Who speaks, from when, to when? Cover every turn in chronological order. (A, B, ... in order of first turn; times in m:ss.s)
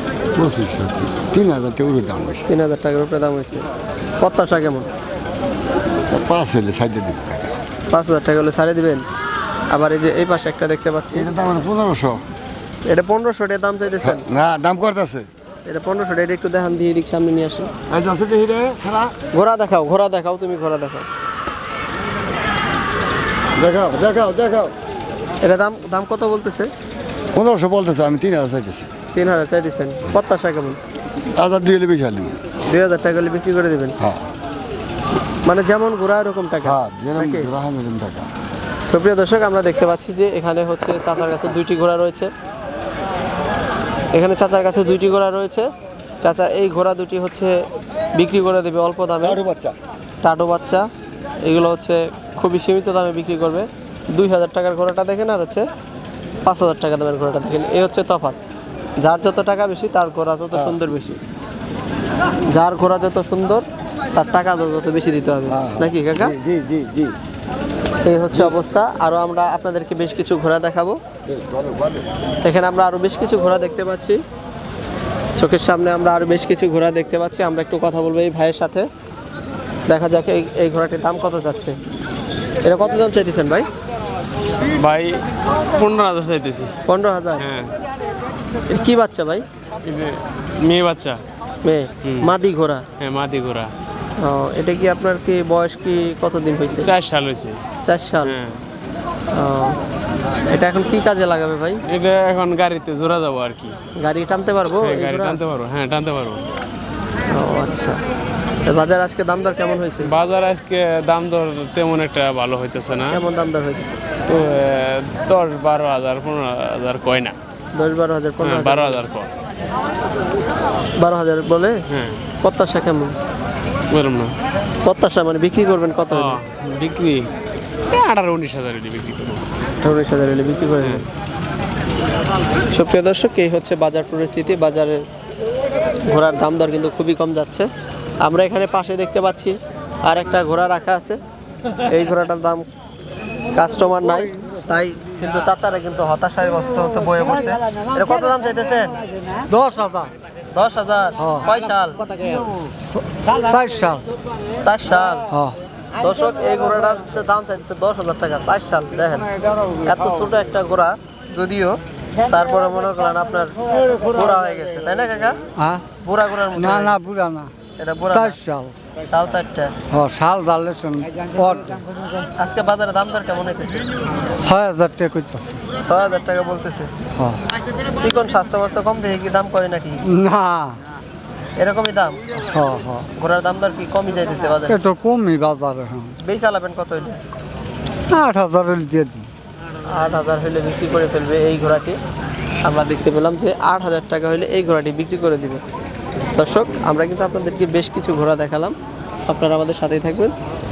0:00.4-0:02.6 A
0:02.5-0:03.7 B
0:04.2-0:04.9 B
0:06.1-0:07.6 A
0:07.9-0:09.1 B
0:09.7-0:11.3 B
0:11.1-0:12.2 A
0:12.8-0:14.2 B
0:14.0-0:15.3 A
0:15.7-0:17.7 B
0:17.9-0:19.1 A
0:19.3-0:21.1 B
0:23.6-0:24.8 A
0:25.4-0:26.7 B
0:27.3-0:28.9 A
0:29.1-0:30.8 B
0:31.4-0:32.4 A
0:32.6-0:34.0 B
0:34.0-0:34.3 A
0:35.4-0:37.5 B
0:36.6-0:38.3 A
0:38.9-0:42.3 B
0:44.1-0:45.7 B
0:46.2-0:47.6 B
0:48.2-0:49.4 B
0:49.2-0:49.8 A
0:50.2-0:50.9 B
0:51.4-0:55.7 B
0:56.4-0:58.4 B
0:59.0-1:01.2 B
1:00.5-1:00.8 A
1:02.5-1:06.4 B
1:05.5-1:07.2 A
1:08.0-1:11.0 B
1:11.3-1:12.1 A
1:12.4-1:14.2 B
1:15.4-1:18.9 B
1:19.9-1:21.8 B
1:22.6-1:23.7 B
1:24.8-1:26.7 C
1:26.9-1:27.4 B
1:27.4-1:27.8 C
1:28.7-1:29.5 B
1:29.8-1:31.2 C
1:31.6-1:32.9 B
1:32.0-1:32.3 C
1:33.0-1:33.7 C
1:34.2-1:36.9 B
1:36.8-1:37.6 C
1:37.8-1:38.4 B
1:38.2-1:38.6 C
1:39.3-1:39.8 B
1:40.5-1:41.8 B
1:41.9-1:43.8 C
1:44.0-1:45.4 B
1:44.8-1:46.5 C
1:47.3-1:48.0 B
1:48.6-1:50.1 B
1:50.0-1:53.2 C
1:53.1-1:54.0 B
1:54.3-1:57.4 C
1:57.7-1:59.0 B
1:58.4-1:59.3 C
2:01.0-2:01.8 B
2:01.9-2:02.2 C
2:02.4-2:03.2 B
2:03.9-2:04.4 C
2:04.8-2:06.4 B
2:06.1-2:07.3 C
2:07.9-2:09.4 C
2:09.8-2:11.0 B
2:12.7-2:15.0 B
2:16.1-2:17.7 B
2:18.2-2:21.2 B
2:21.9-2:22.6 B
2:23.5-2:29.0 B
2:29.5-2:30.1 D
2:30.5-2:32.1 B
2:31.2-2:31.5 D
2:32.3-2:34.0 D
2:34.6-2:35.3 B
2:35.3-2:35.6 D
2:36.0-2:45.4 B
2:45.6-2:45.9 D
2:46.0-2:47.1 B
2:46.6-2:47.5 D
2:47.8-2:48.4 B
2:48.1-2:48.8 D
2:49.1-2:49.7 B
2:49.9-2:51.9 D
2:52.4-2:53.9 B
2:54.4-2:55.6 D
2:55.8-2:56.9 B
2:58.0-3:00.1 B
3:00.0-3:00.8 D
3:01.6-3:02.4 B
3:02.4-3:03.1 D
3:03.1-3:04.8 B
3:04.7-3:06.2 D
3:06.2-3:07.2 B
3:08.1-3:09.3 D
3:09.9-3:12.0 B
3:12.6-3:15.6 B
3:16.4-3:20.3 B